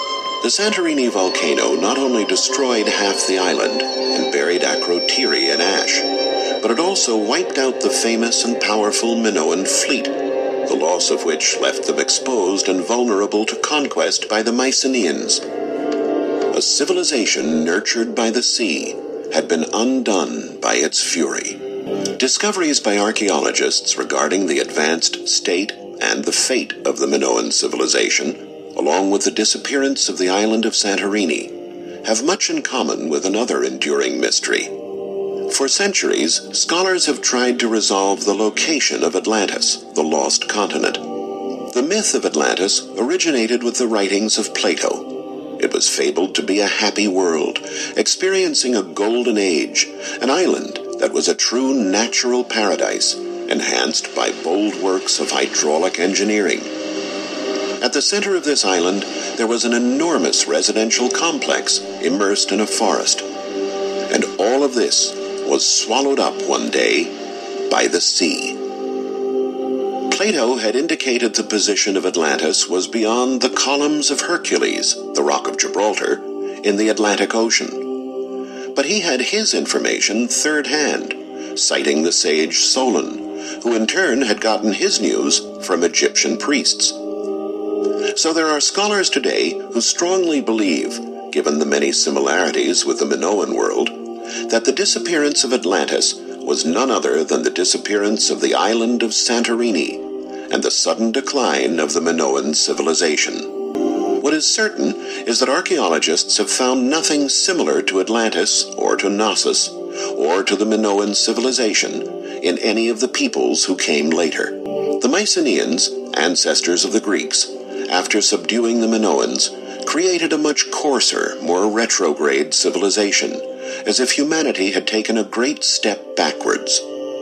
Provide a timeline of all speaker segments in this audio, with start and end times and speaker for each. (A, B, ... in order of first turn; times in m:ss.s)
0:00.4-0:15.5 A
0:16.5-0:34.9 A
0:35.4-0:56.7 A
0:57.8-1:03.3 A
1:04.1-1:07.2 A
1:07.7-1:08.7 A
1:10.1-1:18.1 A
1:18.7-1:27.0 A
1:28.1-1:43.6 A
1:44.2-2:06.8 A